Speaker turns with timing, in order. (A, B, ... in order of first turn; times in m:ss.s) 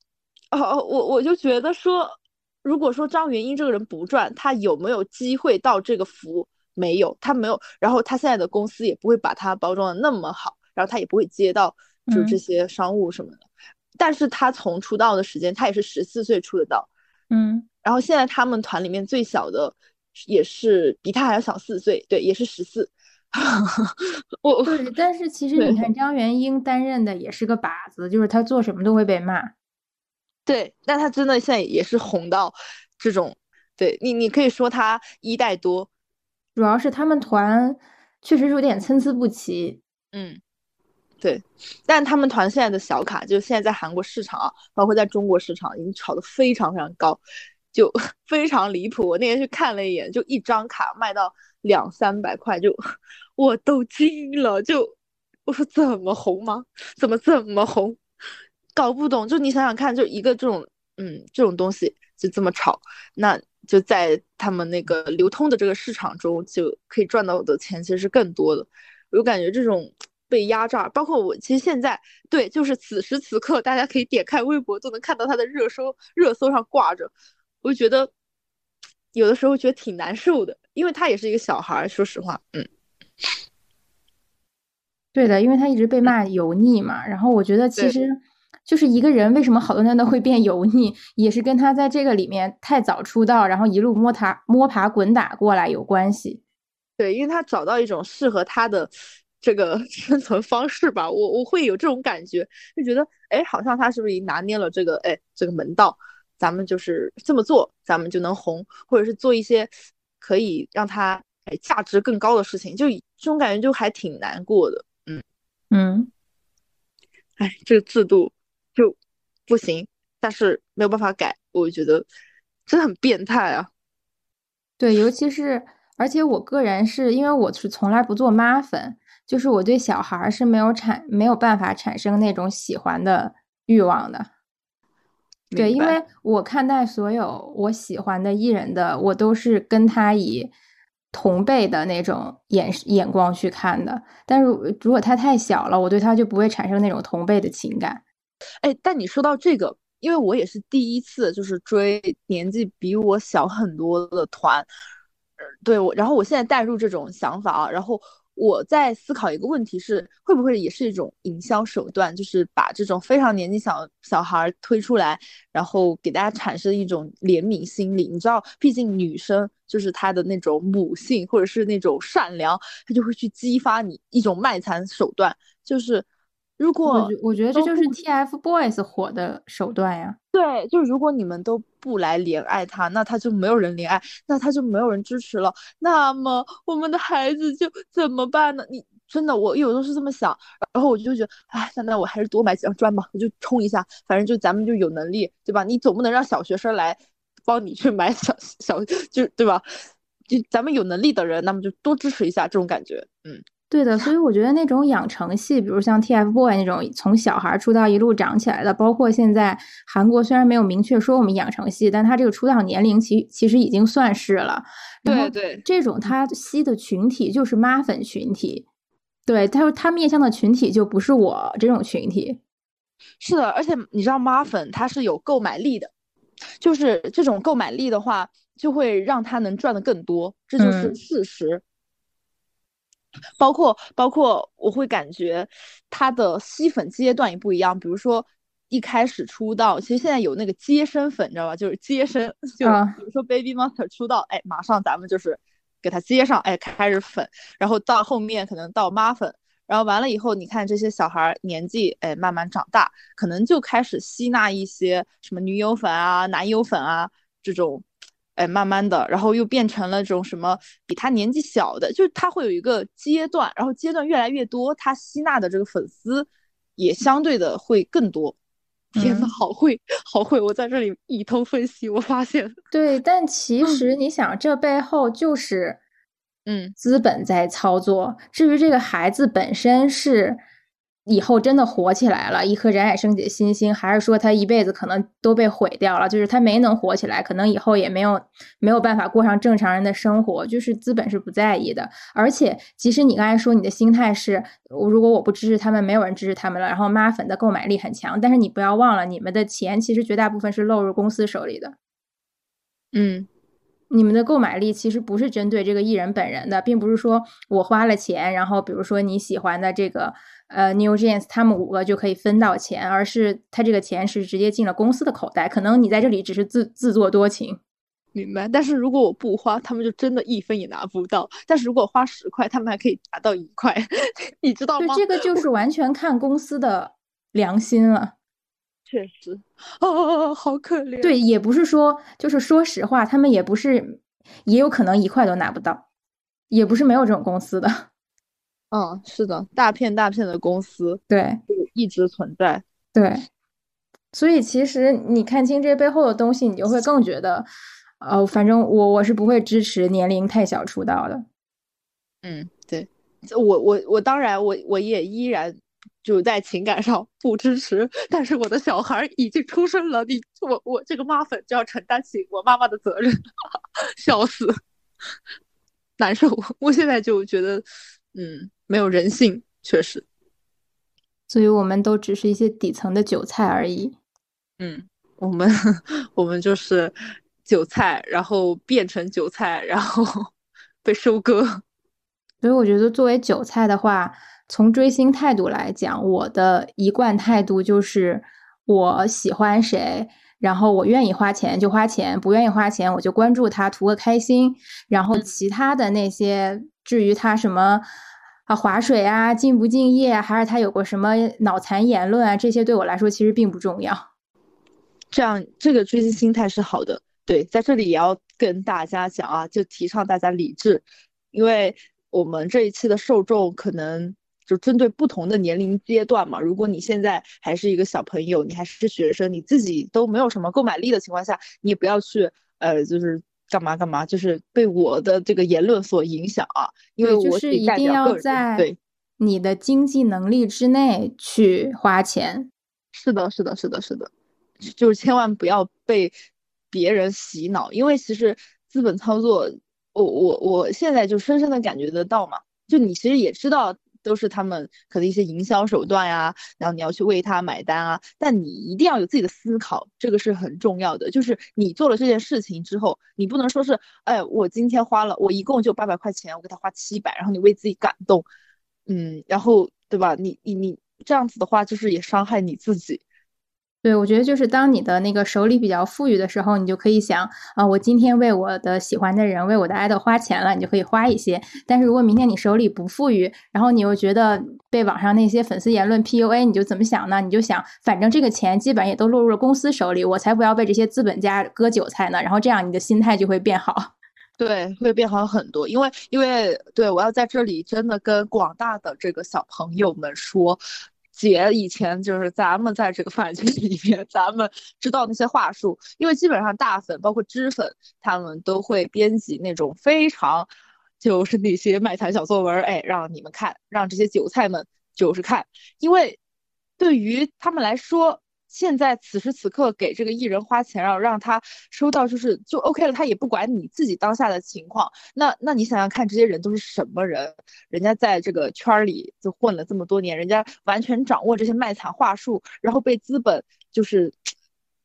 0:00.5-0:13.4 A
0:12.1-0:12.4 B
0:14.0-0:16.9 A
0:17.3-0:17.6 B
0:17.8-0:24.8 A
0:24.6-0:29.5 B
0:25.6-0:25.9 A
0:30.4-0:35.9 A
0:36.6-0:39.8 B
0:40.1-0:40.4 A
0:41.2-0:47.2 A
0:47.7-0:52.8 A
0:53.4-0:54.9 A
0:55.4-0:58.0 A
0:58.7-1:17.1 A
1:17.6-1:18.1 A
1:19.1-1:22.7 A
1:25.1-1:36.4 B
1:37.0-1:55.2 A
1:55.7-1:56.1 B
1:57.4-1:58.9 A
1:59.5-2:02.0 A
2:02.7-2:03.7 A
2:04.8-2:14.3 B
2:15.5-2:16.0 A
2:15.6-2:20.5 B
2:21.1-2:28.0 B
2:28.6-2:34.7 A
2:35.6-2:56.0 A
2:56.6-2:57.9 A
2:56.9-3:00.2 B
3:00.3-3:19.6 A
3:20.3-3:23.4 A
3:23.7-3:38.6 B
3:35.0-3:35.6 A
3:39.3-3:42.4 B
3:43.2-3:45.9 A
3:46.6-3:51.6 A
3:50.6-3:51.0 B
3:53.4-4:28.4 A
4:02.6-4:03.0 B
4:29.0-4:29.3 B
4:29.0-4:32.6 A
4:32.7-4:35.8 B
4:36.4-4:36.8 A
4:36.8-4:40.4 B
4:41.0-5:01.7 B
5:02.9-5:03.3 A
5:03.9-5:17.6 B
5:18.1-5:25.4 A
5:24.8-5:28.1 B
5:28.9-5:31.2 A
5:31.0-5:35.8 B
5:36.5-5:37.9 B
5:38.7-5:42.6 A
5:41.1-5:41.4 B
5:42.9-5:43.2 B
5:44.1-5:47.5 B
5:48.0-5:51.2 B
5:52.2-6:03.1 A
6:04.0-6:04.6 A
6:06.0-6:10.0 A
6:11.3-6:13.9 B
6:14.6-6:20.3 A
6:20.8-6:21.6 A
6:22.4-6:37.8 B
6:38.5-6:44.0 B
6:45.1-7:08.8 A
7:07.0-7:08.6 B
7:09.2-7:12.5 B
7:12.9-7:14.1 A
7:14.6-7:16.1 A
7:16.7-7:38.2 A
7:38.9-7:43.0 A
7:43.8-8:03.9 B
8:04.4-8:10.6 A
8:11.1-8:20.5 A
8:21.0-8:26.2 A
8:26.8-8:44.2 A